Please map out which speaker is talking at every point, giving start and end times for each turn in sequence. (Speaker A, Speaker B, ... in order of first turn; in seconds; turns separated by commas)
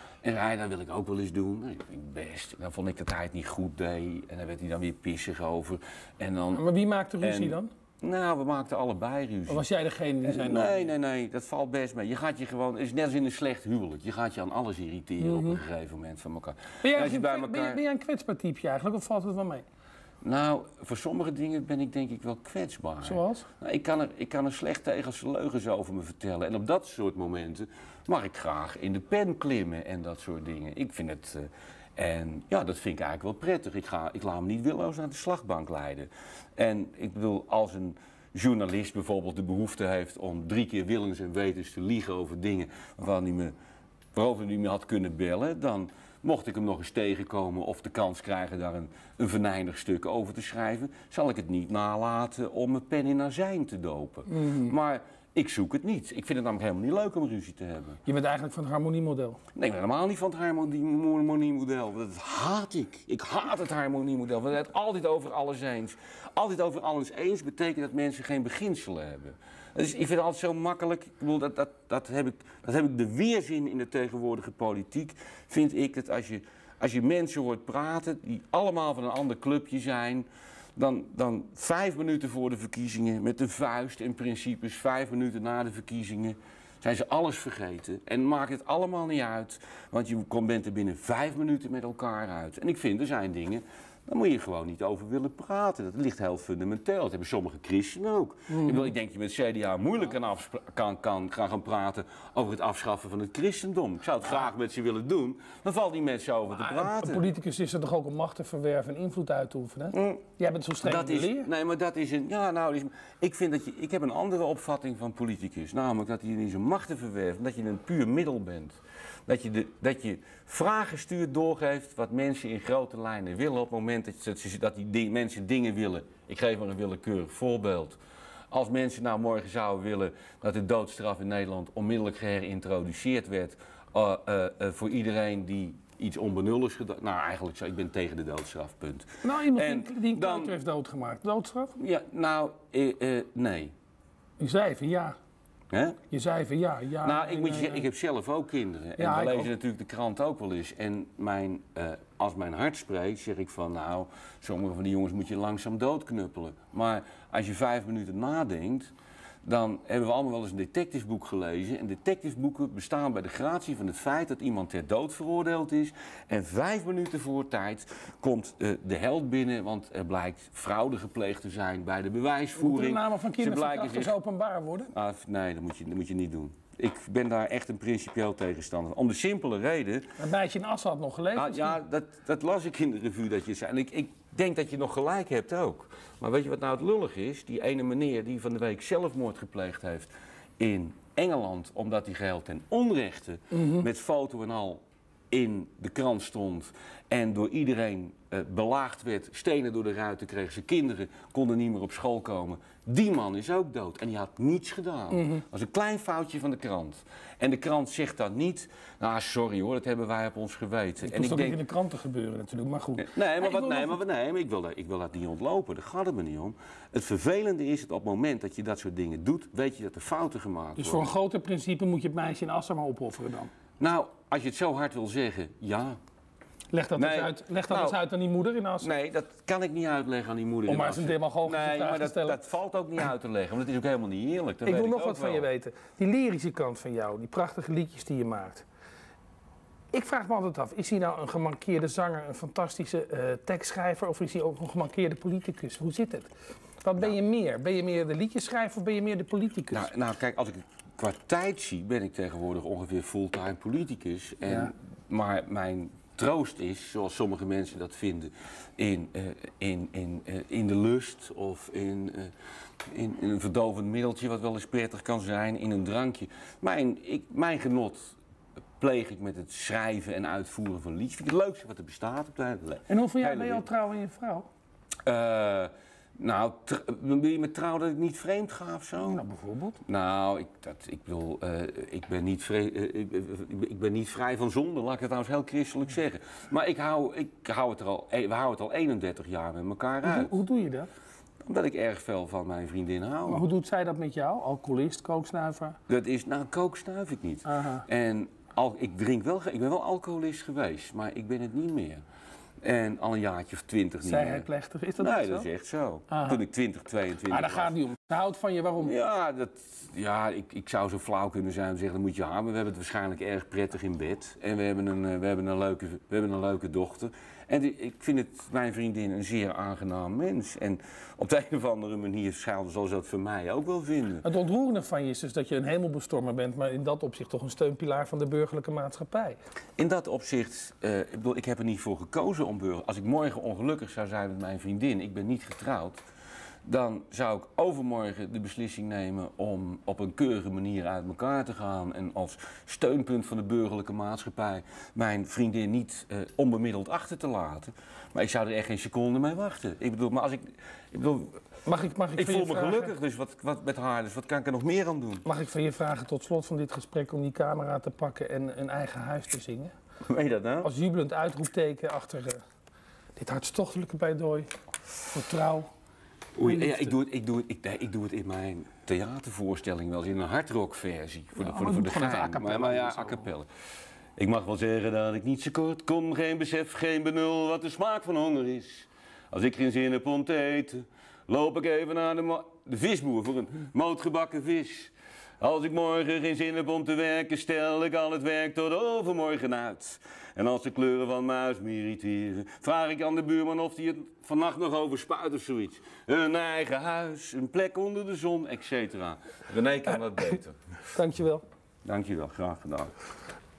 Speaker A: 0.2-6.7, Speaker B: 6.5-7.7, Speaker A: 7.2-9.7, Speaker B: 9.5-10.9, Speaker A: 10.2-17.8, Speaker B: 15.2-15.6, Speaker B: 16.8-19.6, Speaker A: 20.2-43.5, Speaker B: 23.0-23.5, Speaker A: 44.1-58.0, Speaker B: 54.3-54.8, Speaker B: 58.1-59.4, Speaker A: 59.5-107.3, Speaker B: 98.5-98.9, Speaker B: 106.5-111.5, Speaker A: 109.9-110.2, Speaker A: 110.8-128.0, Speaker A: 128.5-140.6, Speaker B: 139.2-141.8, Speaker A: 141.8-143.7, Speaker B: 144.4-145.2, Speaker A: 145.7-146.0, Speaker B: 146.1-147.9, Speaker A: 147.0-158.9, Speaker B: 149.0-149.5, Speaker A: 159.4-174.1, Speaker B: 172.6-174.9, Speaker A: 174.9-180.1, Speaker B: 180.2-181.8, Speaker A: 181.3-211.6, Speaker B: 193.5-193.8, Speaker B: 205.1-205.4, Speaker B: 211.1-214.0, Speaker A: 213.0-221.1, Speaker B: 220.8-223.5, Speaker A: 223.8-226.0, Speaker B: 226.7-228.9, Speaker A: 227.0-228.0, Speaker A: 228.8-235.4, Speaker B: 230.7-232.4, Speaker B: 234.6-238.7, Speaker B: 239.9-246.3, Speaker B: 246.8-249.9, Speaker A: 249.7-262.3, Speaker B: 254.4-254.7, Speaker A: 262.9-268.2, Speaker A: 268.8-273.7, Speaker B: 272.9-274.5, Speaker A: 275.1-279.2, Speaker B: 279.1-279.8, Speaker A: 279.8-290.4, Speaker B: 290.0-290.9, Speaker A: 291.4-293.4, Speaker B: 293.3-295.8, Speaker A: 295.9-302.0, Speaker B: 297.5-297.9, Speaker A: 302.6-304.5, Speaker B: 304.1-305.5, Speaker A: 305.0-307.8, Speaker B: 306.1-306.4, Speaker B: 307.3-308.9, Speaker A: 308.8-324.2, Speaker B: 324.2-329.4, Speaker A: 329.8-336.0, Speaker A: 336.6-351.4, Speaker B: 351.6-352.9, Speaker A: 352.1-355.2, Speaker B: 355.2-359.7, Speaker A: 360.0-360.7, Speaker B: 360.6-362.4, Speaker B: 363.2-364.5, Speaker B: 365.1-365.7, Speaker A: 366.4-373.5, Speaker B: 366.4-366.9, Speaker B: 371.4-373.3, Speaker A: 374.2-400.6, Speaker B: 400.9-401.4, Speaker A: 401.9-402.9